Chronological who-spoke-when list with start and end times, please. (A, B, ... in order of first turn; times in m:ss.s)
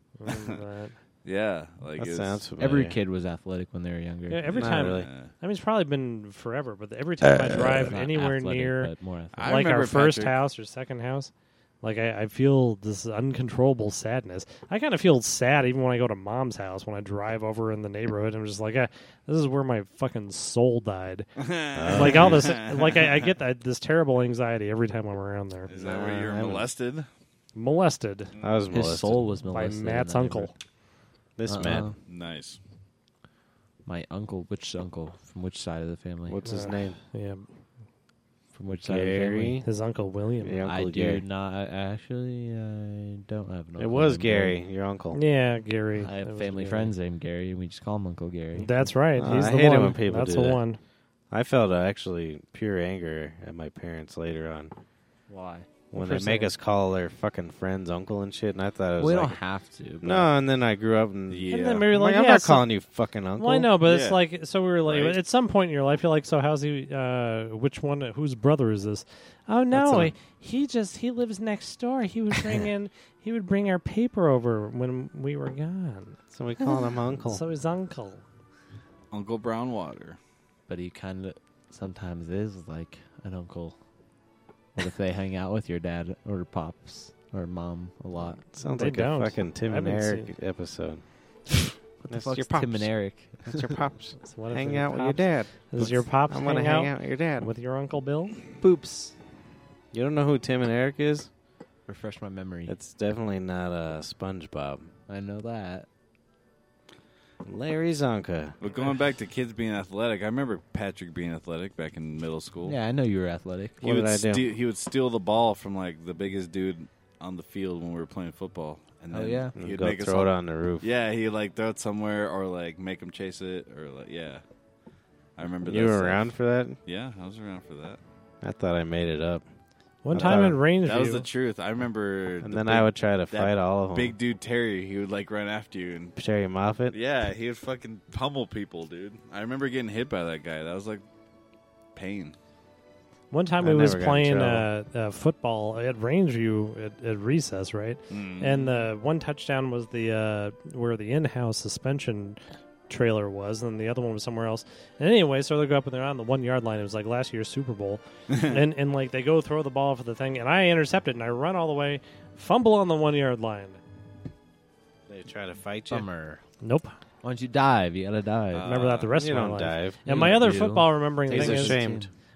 0:00.2-0:01.0 A
0:00.3-0:00.6 B
0:01.2-0:02.4 B
0:02.0-0:03.0 C
0:02.6-0:04.4 D
0:04.3-0:08.9 A
0:04.5-0:05.3 B
0:04.5-0:05.1 C
0:07.7-0:09.6 D
0:09.3-0:10.3 B
0:09.4-0:11.3 A
0:11.8-0:21.3 A
0:21.4-0:23.3 B
0:21.7-0:22.6 C
0:21.9-0:25.7 A
0:25.7-0:27.1 B
0:25.7-0:26.7 C
0:27.5-0:28.3 A
0:28.4-0:28.6 B
0:28.4-0:29.2 C
0:28.7-0:30.5 D
0:29.5-0:30.5 A
0:31.4-0:31.9 C
0:31.5-0:32.0 D
0:32.1-0:32.6 B
0:33.8-0:36.4 D
0:36.3-0:37.0 C
0:36.4-0:37.5 A
0:38.5-0:39.6 D
0:38.8-0:39.7 C
0:39.6-0:40.6 A
0:40.4-0:41.2 C
0:40.6-0:44.6 D
0:43.8-0:45.2 C
0:45.1-0:46.9 A
0:46.0-0:48.7 D
0:48.6-0:50.8 A
0:49.2-0:50.6 C
0:51.3-0:54.7 C
0:55.3-0:55.7 D
0:55.9-0:59.4 C
0:56.0-0:56.4 A
0:59.0-1:00.3 D
1:00.0-1:03.7 C
1:01.3-1:01.9 B
1:01.5-1:02.7 A
1:03.4-1:16.2 A
1:03.8-1:04.2 B
1:04.8-1:05.2 B
1:09.7-1:10.1 C
1:16.3-1:17.4 C
1:17.2-1:18.2 A
1:19.1-1:20.2 B
1:20.7-1:23.8 D
1:24.7-1:28.4 D
1:28.4-1:31.0 C
1:28.6-1:30.3 A
1:32.0-1:33.8 D
1:32.1-1:37.5 C
1:34.2-1:38.4 A
1:38.6-1:39.1 D
1:39.9-1:41.3 C
1:41.9-1:42.7 D
1:42.7-1:44.9 C
1:45.1-1:45.9 D
1:47.4-1:48.6 C
1:48.6-1:52.8 B
1:52.6-1:53.8 D
1:53.8-1:54.4 C
1:53.8-2:04.4 B
1:59.1-1:59.5 D
1:59.6-2:00.8 C
2:05.4-2:06.3 B
2:05.6-2:06.8 C
2:06.8-2:08.0 B
2:08.4-2:09.4 C
2:10.0-2:11.3 A
2:10.1-2:10.6 C
2:10.2-2:16.2 B
2:12.4-2:14.2 C
2:16.2-2:17.0 C
2:16.9-2:21.0 B
2:21.9-2:22.4 B
2:23.3-2:43.8 A
2:23.6-2:24.7 C
2:28.1-2:28.8 B
2:38.3-2:38.6 B
2:45.1-2:46.1 C
2:45.9-2:46.4 D
2:46.6-2:46.9 A
2:47.2-2:48.7 D
2:48.5-2:49.1 B
2:48.6-2:51.8 A
2:49.1-2:50.0 C
2:50.0-2:52.1 D
2:51.3-2:52.1 C